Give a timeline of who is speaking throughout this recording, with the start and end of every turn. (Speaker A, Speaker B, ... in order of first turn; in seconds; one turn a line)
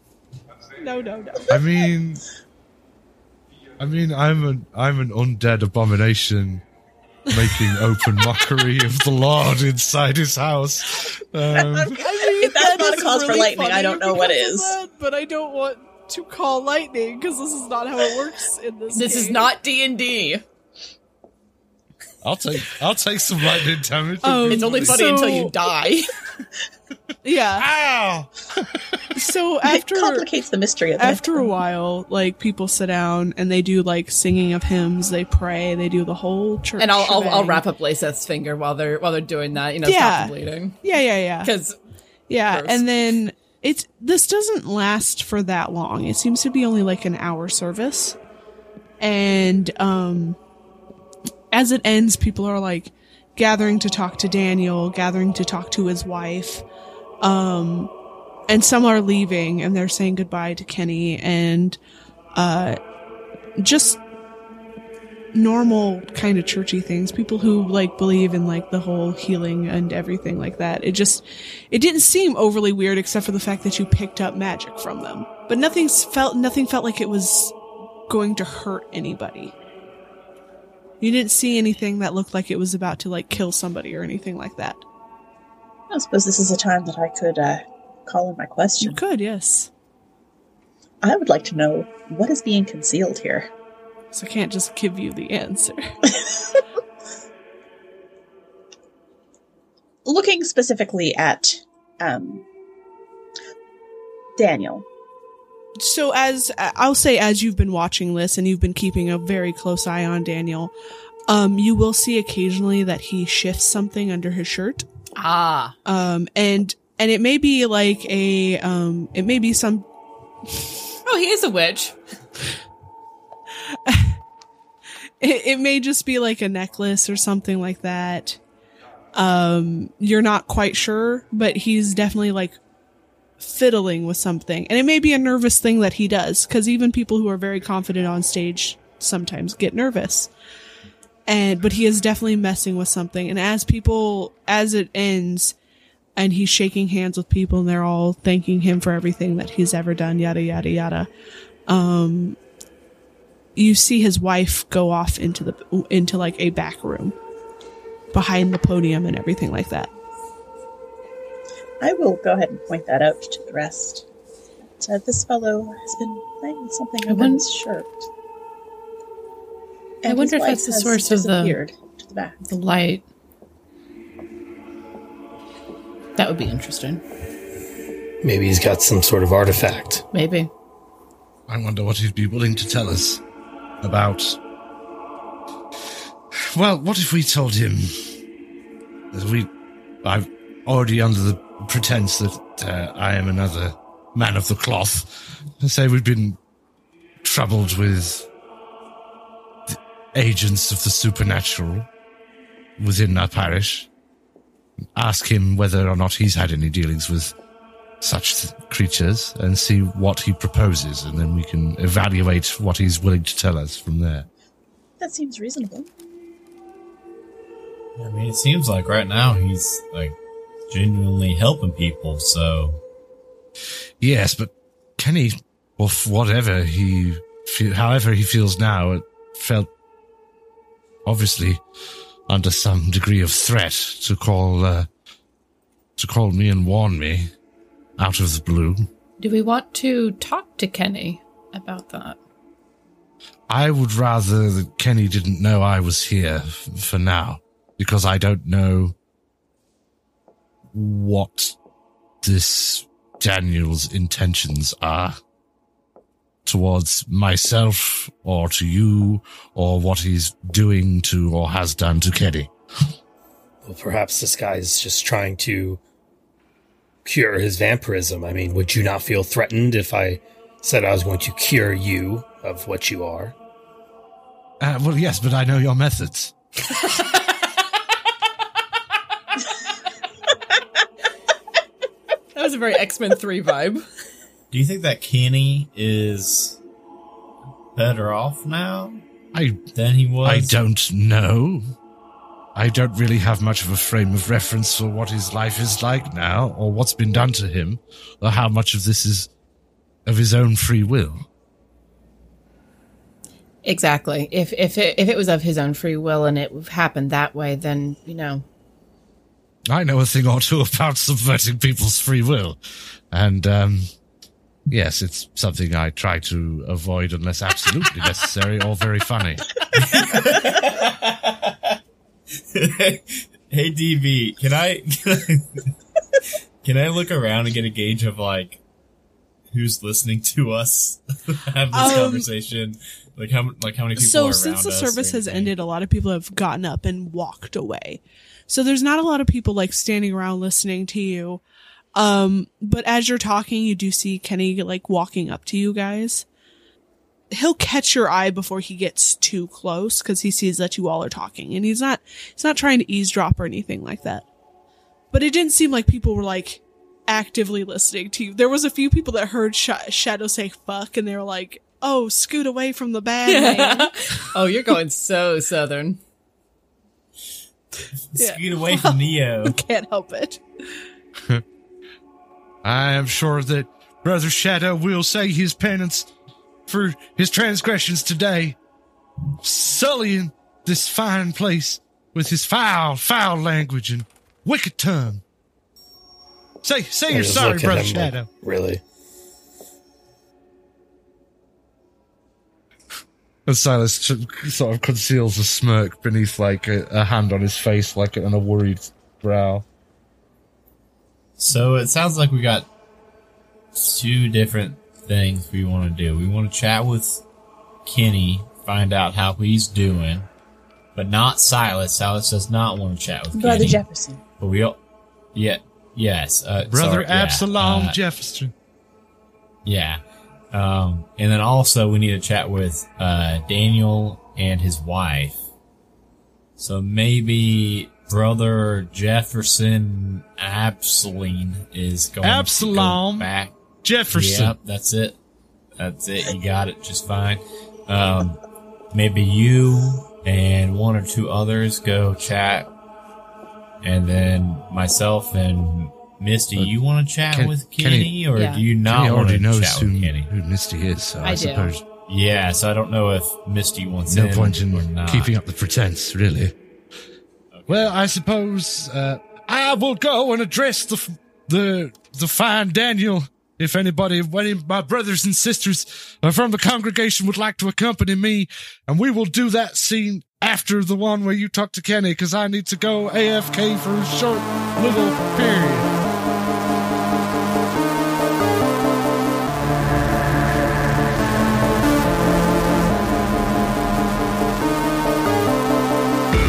Speaker A: 0.8-1.6
Speaker B: 1.5-2.2
Speaker B: 3.8-6.6
Speaker B: 7.3-12.0
Speaker C: 11.5-14.8
Speaker A: 11.9-19.5
Speaker D: 18.9-20.4
Speaker B: 22.2-25.0
Speaker A: 24.2-25.5
Speaker D: 24.5-26.1
Speaker A: 27.2-27.7
Speaker B: 27.6-29.1
Speaker A: 29.1-30.3
Speaker C: 29.6-31.6
Speaker A: 31.0-37.6
Speaker D: 36.8-40.8
Speaker A: 39.9-41.5
Speaker D: 41.4-41.8
Speaker A: 42.3-48.2
Speaker D: 42.5-42.9
Speaker A: 49.0-50.4
Speaker A: 51.5-56.6
Speaker A: 57.2-57.9
Speaker A: 58.5-61.8
Speaker A: 62.4-62.8
Speaker A: 63.6-64.0
Speaker A: 65.3-77.5
Speaker A: 78.1-79.5
Speaker A: 81.0-84.8
Speaker C: 85.9-89.0
Speaker A: 88.8-89.7
Speaker C: 91.0-93.5
Speaker A: 94.1-95.9
Speaker C: 100.0-102.5
Speaker C: 104.4-104.9
Speaker A: 105.8-110.7
Speaker A: 111.3-114.9
Speaker D: 115.2-115.8
Speaker A: 115.8-119.9
Speaker A: 120.5-120.8
Speaker D: 121.0-122.0
Speaker A: 123.7-124.2
Speaker A: 125.2-128.4
Speaker A: 129.2-132.6
Speaker A: 133.4-140.3
Speaker A: 141.3-145.5
Speaker A: 146.2-151.1
Speaker A: 151.7-152.4
Speaker A: 153.6-157.2
Speaker A: 158.1-159.9
Speaker C: 161.8-164.1
Speaker C: 164.8-168.1
Speaker D: 167.1-167.4
Speaker C: 170.0-172.5
Speaker D: 170.1-171.6
Speaker D: 172.4-173.1
Speaker D: 176.2-177.0
Speaker E: 178.2-180.1
Speaker D: 180.1-180.5
Speaker B: 181.5-183.2
Speaker B: 183.8-184.4
Speaker B: 186.5-187.9
Speaker B: 189.1-189.5
Speaker B: 190.0-196.4
Speaker B: 197.2-198.3
Speaker B: 199.7-201.9
Speaker B: 202.8-203.9
Speaker B: 204.9-207.3
Speaker B: 208.0-214.3
Speaker C: 215.0-215.9
Speaker F: 218.0-220.2
Speaker F: 220.7-222.8
Speaker B: 224.0-229.7
Speaker B: 231.1-231.6
Speaker B: 232.3-234.9
Speaker B: 236.0-237.3
Speaker B: 238.0-238.9
Speaker D: 239.2-242.2
Speaker B: 243.5-249.0
Speaker B: 250.7-251.6
Speaker B: 252.2-255.2
Speaker B: 256.5-262.5
Speaker E: 263.6-265.8
Speaker E: 267.1-273.4
Speaker B: 274.6-276.3
Speaker D: 276.6-277.6
Speaker D: 282.4-283.9
Speaker F: 284.5-286.6
Speaker F: 287.8-289.0
Speaker B: 289.3-289.6
Speaker F: 289.7-290.6
Speaker B: 290.2-291.6
Speaker B: 292.6-299.3
Speaker B: 300.1-301.2
Speaker D: 303.6-308.4
Speaker B: 309.7-312.6
Speaker B: 313.1-313.9
Speaker B: 314.7-319.5
Speaker F: 319.7-321.6
Speaker F: 322.5-325.7
Speaker F: 326.6-328.6
Speaker F: 329.5-335.5
Speaker A: 331.7-332.3
Speaker A: 334.0-341.4
Speaker A: 342.0-346.2
Speaker A: 347.3-354.3
Speaker A: 355.1-364.3
Speaker D: 363.2-366.0
Speaker F: 368.1-369.6
Speaker A: 368.2-370.4
Speaker B: 372.6-376.1
Speaker B: 376.7-378.6
Speaker B: 379.4-385.2
Speaker B: 386.6-388.3
Speaker E: 387.1-388.8
Speaker B: 393.5-399.6
Speaker F: 401.4-402.7
Speaker F: 403.8-407.2
Speaker F: 407.9-410.3
Speaker F: 410.9-413.8
Speaker C: 413.3-414.2
Speaker F: 414.4-414.8
Speaker F: 415.3-418.0
Speaker B: 416.7-418.5
Speaker F: 419.6-420.0
Speaker F: 420.5-425.4
Speaker F: 426.6-433.6
Speaker B: 432.2-433.3
Speaker B: 433.8-434.6
Speaker F: 434.1-435.2
Speaker F: 435.8-438.4
Speaker F: 438.9-442.7
Speaker F: 443.8-450.3
Speaker B: 447.3-448.2
Speaker D: 448.4-448.6
Speaker B: 448.9-451.8
Speaker D: 451.2-451.7
Speaker F: 452.1-455.3
Speaker B: 454.1-456.6
Speaker F: 457.5-457.9
Speaker B: 457.7-475.9